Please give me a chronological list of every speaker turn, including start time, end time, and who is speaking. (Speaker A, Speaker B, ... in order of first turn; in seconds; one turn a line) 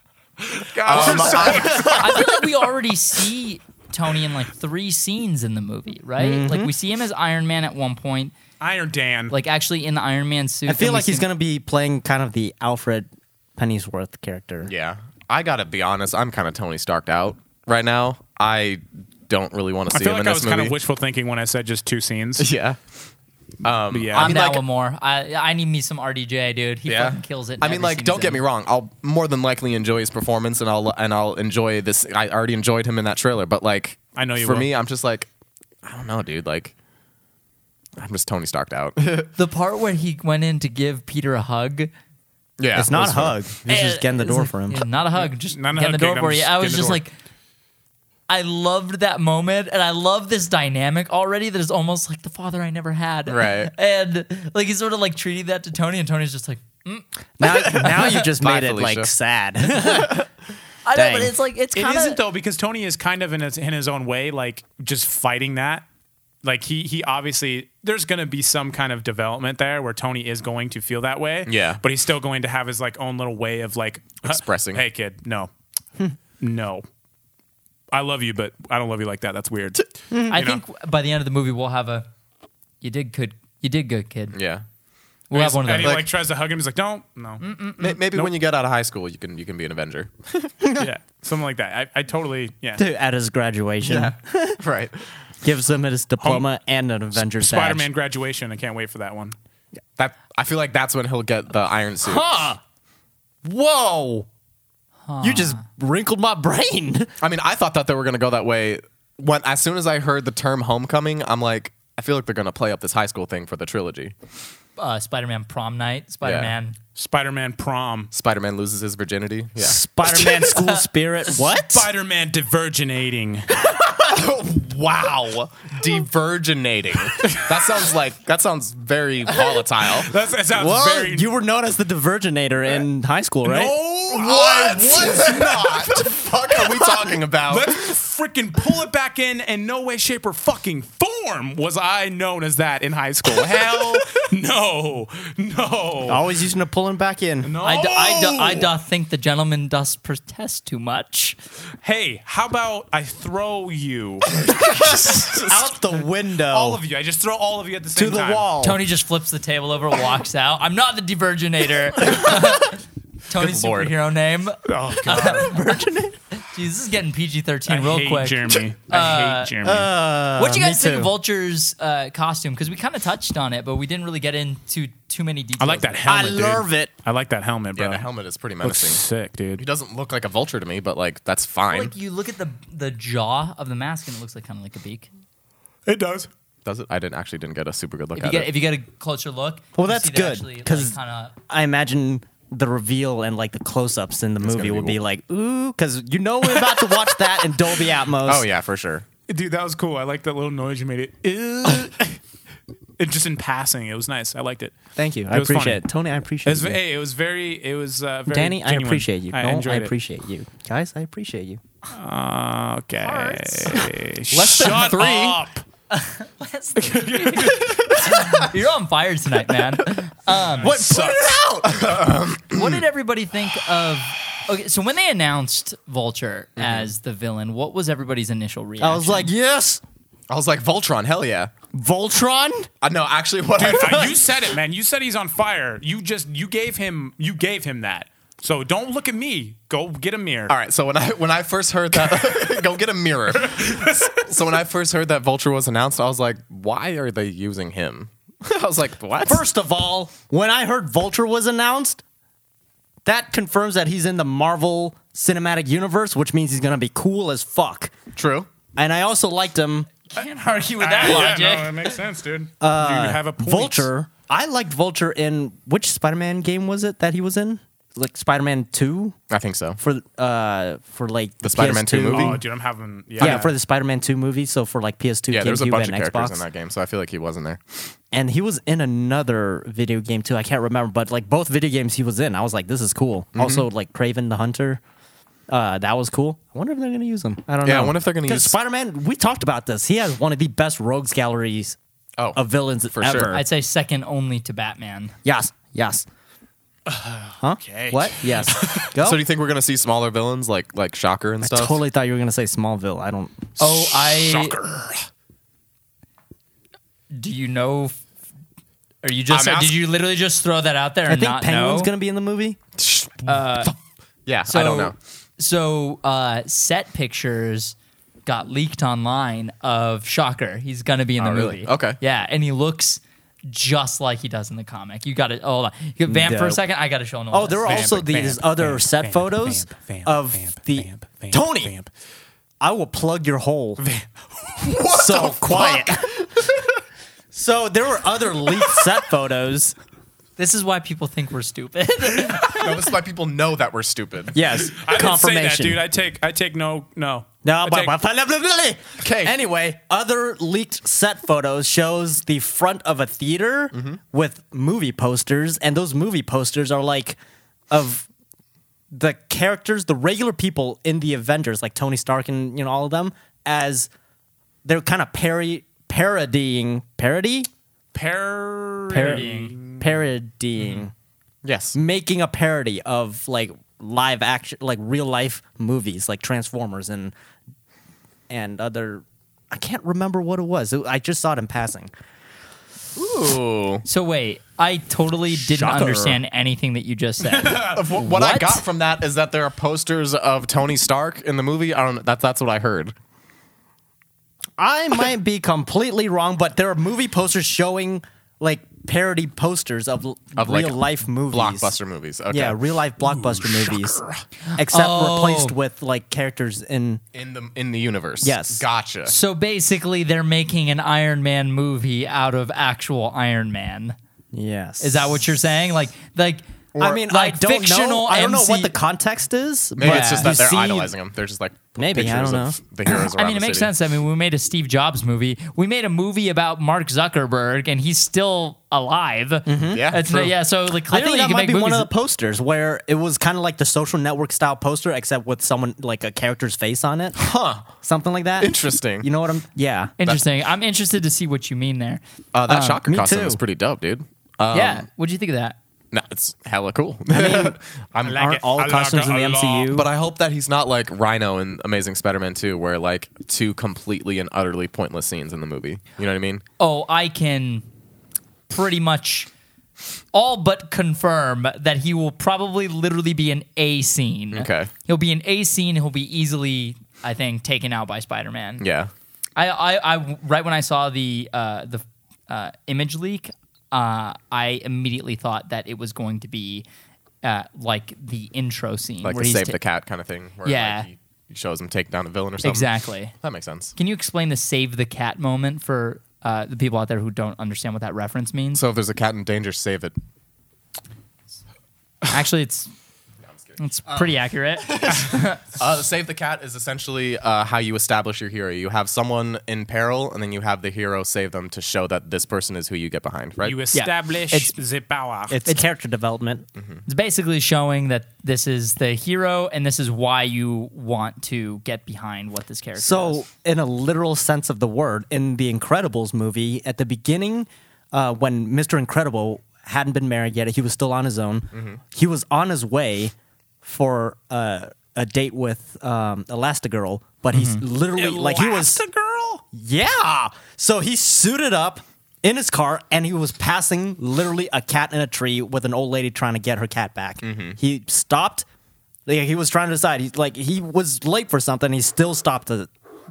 Speaker A: 0.5-2.3
Speaker B: 0.8-2.3
Speaker C: 0.9-2.0
Speaker D: 1.7-8.3
Speaker C: 6.2-6.7
Speaker A: 8.6-9.3
Speaker D: 9.3-11.3
Speaker C: 10.7-14.7
Speaker B: 14.7-20.8
Speaker A: 19.9-22.5
Speaker B: 22.4-22.8
Speaker B: 23.6-24.6
Speaker A: 23.9-24.4
Speaker D: 24.1-28.4
Speaker B: 26.9-35.3
Speaker A: 34.1-34.7
Speaker B: 35.8-36.7
Speaker B: 38.0-39.3
Speaker D: 39.4-41.9
Speaker B: 42.6-43.4
Speaker C: 42.7-44.9
Speaker D: 43.7-47.1
Speaker A: 45.2-47.0
Speaker D: 48.3-58.2
Speaker B: 53.3-53.7
Speaker C: 57.4-60.3
Speaker B: 58.1-59.1
Speaker D: 60.9-62.2
Speaker C: 60.9-61.4
Speaker A: 61.8-65.8
Speaker A: 66.4-75.5
Speaker B: 71.5-71.8
Speaker B: 74.2-74.8
Speaker A: 76.4-76.8
Speaker A: 77.9-80.6
Speaker C: 80.1-80.4
Speaker D: 80.3-82.1
Speaker D: 82.8-84.4
Speaker B: 84.3-84.7
Speaker D: 85.3-86.0
Speaker A: 85.3-87.4
Speaker B: 85.8-86.1
Speaker D: 87.4-88.0
Speaker B: 87.8-90.5
Speaker C: 90.6-90.9
Speaker A: 90.8-92.8
Speaker C: 92.8-94.6
Speaker B: 93.8-95.0
Speaker C: 95.4-97.9
Speaker A: 96.2-96.5
Speaker A: 97.2-99.4
Speaker B: 100.0-102.2
Speaker C: 102.0-102.6
Speaker C: 103.5-104.3
Speaker D: 105.1-105.6
Speaker C: 105.2-107.1
Speaker B: 107.2-114.2
Speaker D: 114.8-116.8
Speaker B: 116.2-116.5
Speaker A: 117.0-118.1
Speaker B: 118.1-119.8
Speaker C: 119.6-121.9
Speaker A: 121.4-123.5
Speaker B: 123.6-130.1
Speaker A: 129.9-131.3
Speaker C: 130.5-133.8
Speaker A: 133.4-146.3
Speaker B: 134.1-137.8
Speaker C: 146.1-147.5
Speaker A: 147.4-148.7
Speaker D: 147.6-151.4
Speaker A: 151.8-154.4
Speaker C: 154.5-156.8
Speaker B: 154.8-155.4
Speaker A: 154.9-158.5
Speaker C: 157.9-158.8
Speaker D: 158.6-165.6
Speaker B: 163.3-163.9
Speaker A: 164.7-165.5
Speaker C: 165.1-166.2
Speaker D: 166.4-169.5
Speaker A: 167.7-169.9
Speaker C: 169.6-171.1
Speaker D: 170.4-176.2
Speaker A: 175.6-178.1
Speaker C: 176.1-176.9
Speaker B: 177.8-179.0
Speaker A: 178.6-179.6
Speaker B: 179.6-181.9
Speaker D: 181.7-185.1
Speaker A: 185.9-186.3
Speaker B: 186.7-188.5
Speaker D: 188.2-191.3
Speaker C: 189.8-191.0
Speaker C: 191.5-198.5
Speaker B: 194.4-195.0
Speaker B: 198.2-199.1
Speaker A: 199.3-202.2
Speaker A: 203.0-204.7
Speaker C: 205.0-206.8
Speaker A: 205.3-205.8
Speaker A: 206.4-209.9
Speaker C: 208.3-211.6
Speaker A: 211.9-215.6
Speaker D: 213.0-213.9
Speaker B: 214.3-215.4
Speaker D: 215.9-220.8
Speaker A: 216.8-218.4
Speaker A: 220.5-221.4
Speaker C: 220.6-221.7
Speaker B: 220.7-222.8
Speaker D: 222.5-229.3
Speaker B: 226.6-226.9
Speaker C: 228.8-229.8
Speaker B: 230.3-231.5
Speaker C: 231.7-232.7
Speaker B: 232.8-234.2
Speaker A: 233.6-240.6
Speaker C: 233.8-234.1
Speaker B: 240.5-249.4
Speaker A: 243.4-244.1
Speaker C: 249.2-252.0
Speaker C: 253.1-257.9
Speaker B: 258.1-258.5
Speaker C: 258.8-259.9
Speaker D: 260.1-262.0
Speaker A: 260.8-263.9
Speaker C: 262.6-269.2
Speaker B: 269.3-269.8
Speaker C: 269.8-272.4
Speaker B: 271.4-272.4
Speaker A: 272.1-273.5
Speaker C: 273.2-276.4
Speaker B: 273.2-273.5
Speaker B: 275.3-277.9
Speaker C: 278.1-284.8
Speaker B: 283.4-283.6
Speaker C: 285.5-291.8
Speaker B: 287.6-288.6
Speaker C: 292.4-293.4
Speaker B: 292.9-293.4
Speaker D: 293.3-295.1
Speaker C: 295.2-296.1
Speaker A: 296.9-298.9
Speaker C: 297.4-299.2
Speaker B: 298.7-301.8
Speaker C: 301.4-303.5
Speaker D: 303.6-304.6
Speaker A: 303.9-305.1
Speaker D: 307.1-308.0
Speaker D: 309.0-311.9
Speaker B: 309.3-309.8
Speaker C: 311.1-312.6
Speaker B: 312.8-313.7
Speaker D: 313.2-313.7
Speaker B: 314.3-314.9
Speaker D: 314.5-328.0
Speaker B: 321.2-322.0
Speaker C: 326.1-326.6
Speaker C: 327.3-331.8
Speaker A: 327.6-331.9
Speaker C: 332.6-333.8
Speaker A: 333.8-335.2
Speaker B: 334.6-336.5
Speaker C: 334.9-336.2
Speaker C: 337.3-339.8
Speaker D: 340.4-342.7
Speaker B: 342.4-344.4
Speaker C: 344.3-345.8
Speaker A: 344.7-347.9
Speaker C: 347.4-357.2
Speaker B: 349.0-349.4
Speaker B: 353.7-354.0
Speaker C: 357.7-358.1
Speaker C: 358.9-363.9
Speaker C: 364.6-367.5
Speaker A: 367.9-369.9
Speaker C: 368.9-370.9
Speaker B: 371.4-371.8
Speaker C: 371.8-377.1
Speaker C: 378.3-381.9
Speaker B: 383.0-383.9
Speaker D: 383.9-388.6
Speaker C: 385.3-386.2
Speaker A: 387.2-387.8
Speaker B: 387.6-392.9
Speaker C: 394.6-401.7
Speaker B: 400.4-402.6
Speaker C: 402.3-404.0
Speaker A: 403.0-404.2
Speaker D: 404.4-405.6
Speaker C: 404.6-407.0
Speaker B: 407.1-409.1
Speaker C: 408.2-408.6
Speaker D: 409.1-414.0
Speaker C: 414.3-415.2
Speaker D: 414.8-418.7
Speaker C: 416.8-420.9
Speaker B: 419.8-423.7
Speaker D: 419.8-420.4
Speaker C: 421.8-422.6
Speaker D: 422.9-431.9
Speaker C: 429.5-429.9
Speaker B: 429.7-430.3
Speaker C: 430.7-437.2
Speaker B: 437.2-437.7
Speaker C: 437.8-439.9
Speaker B: 438.4-439.1
Speaker D: 440.0-442.8
Speaker B: 442.3-444.9
Speaker C: 442.8-443.4
Speaker D: 444.5-445.6
Speaker B: 445.9-448.2
Speaker C: 447.1-447.6
Speaker A: 448.0-449.7
Speaker C: 448.1-449.9
Speaker B: 449.7-456.4
Speaker D: 456.6-457.6
Speaker D: 458.5-459.3
Speaker D: 460.1-468.6
Speaker B: 464.3-464.7
Speaker B: 468.6-468.9
Speaker D: 469.4-476.6
Speaker D: 477.2-479.6
Speaker B: 479.0-483.7
Speaker D: 480.4-480.9
Speaker D: 482.4-483.1
Speaker D: 483.8-488.6
Speaker B: 488.6-490.0
Speaker D: 492.1-492.7
Speaker D: 493.6-495.4
Speaker B: 494.6-503.6
Speaker A: 503.4-505.4
Speaker D: 503.7-504.5
Speaker C: 505.3-506.5
Speaker D: 506.9-513.2
Speaker C: 512.8-528.8
Speaker B: 521.5-521.8
Speaker D: 527.3-527.6
Speaker A: 527.9-529.4
Speaker C: 529.5-538.5
Speaker B: 537.2-537.6
Speaker C: 539.1-542.7